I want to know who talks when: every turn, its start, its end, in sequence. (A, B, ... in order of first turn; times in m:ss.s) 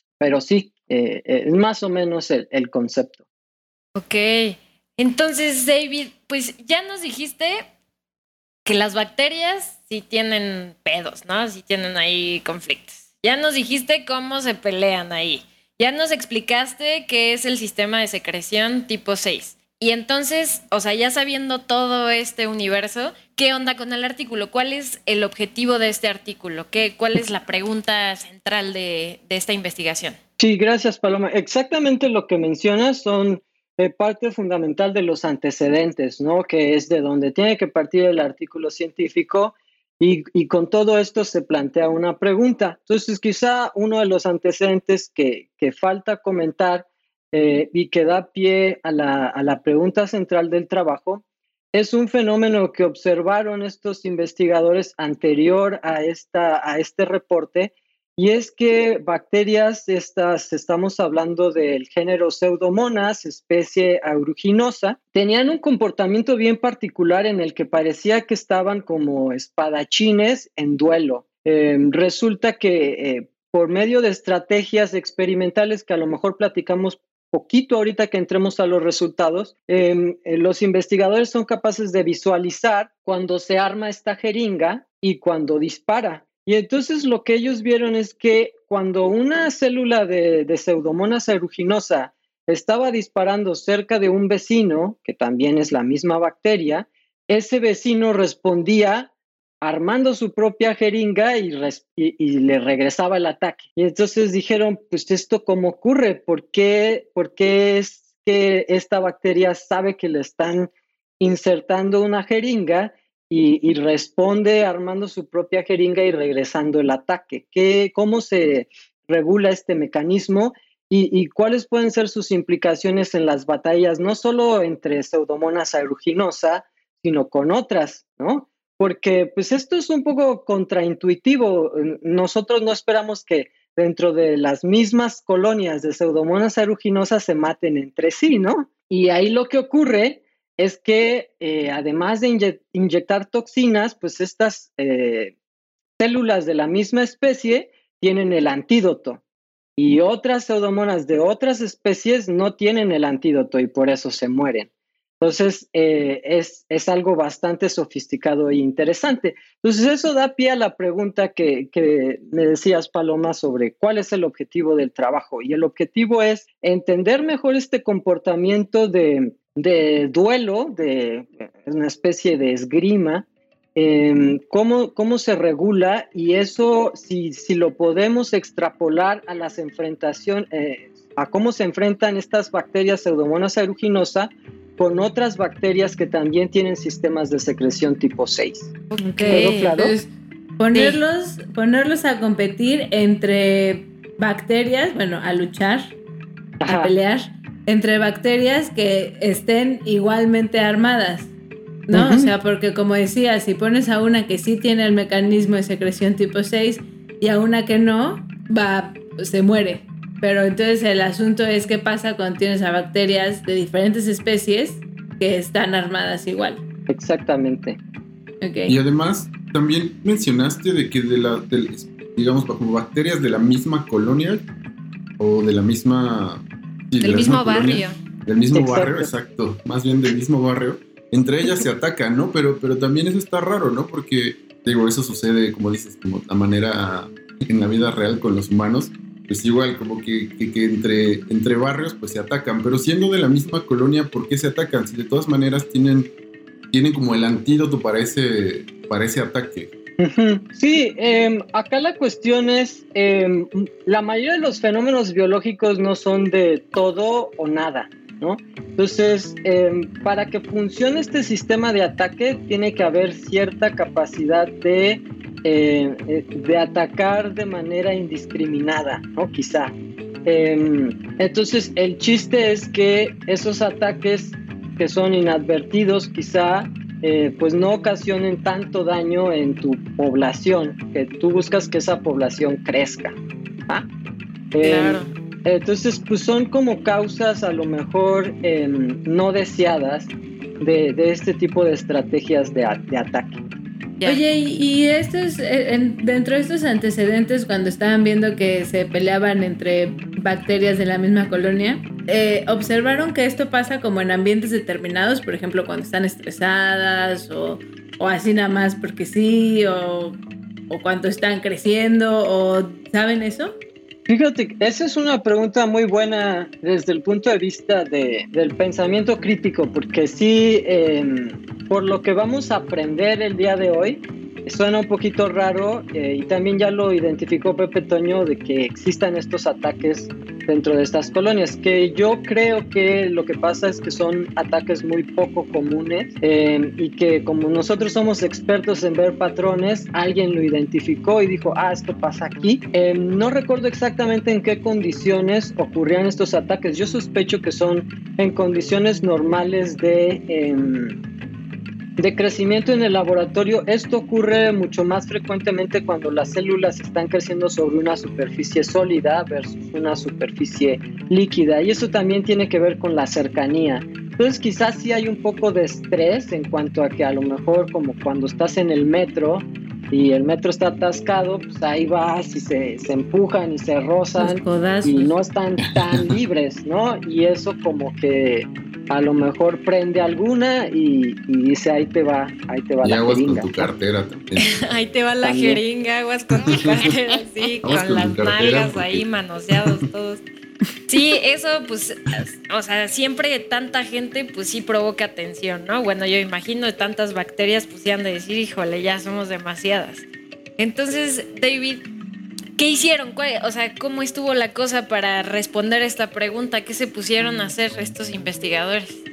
0:00.2-0:03.2 A
0:04.0-0:07.6 B
0:08.7-0:30.2 B
0:30.4-1:39.1 A
1:39.6-2:25.4 A
2:26.0-2:29.2 A
2:29.8-2:34.7 A
2:35.2-3:08.7 A
3:08.9-3:09.7 B
3:09.0-3:15.9 C
3:09.3-3:09.9 A
3:10.7-3:11.0 B
3:16.6-3:16.9 A
3:16.7-3:21.3 C
3:21.9-3:36.6 C
3:21.9-3:22.3 A
3:36.9-3:37.8 A
3:38.4-3:38.8 C
3:38.7-3:44.5 D
3:45.2-4:06.1 D
3:47.0-3:48.0 B
3:48.5-3:49.1 A
4:06.7-4:09.7 D
4:10.0-4:29.8 A
4:30.3-4:43.2 A
4:44.5-4:53.4 A
4:44.6-4:45.1 B
4:54.1-5:13.6 C
5:14.1-5:51.0 A
5:52.0-6:23.7 A
6:14.2-6:15.1 C
6:15.7-6:16.1 D
6:22.8-6:24.5 D
6:24.4-6:30.2 B
6:25.2-6:25.6 A
6:26.4-6:26.8 D
6:27.6-6:29.9 D
6:30.9-6:40.1 B
6:40.6-6:41.9 B
6:42.6-6:49.0 B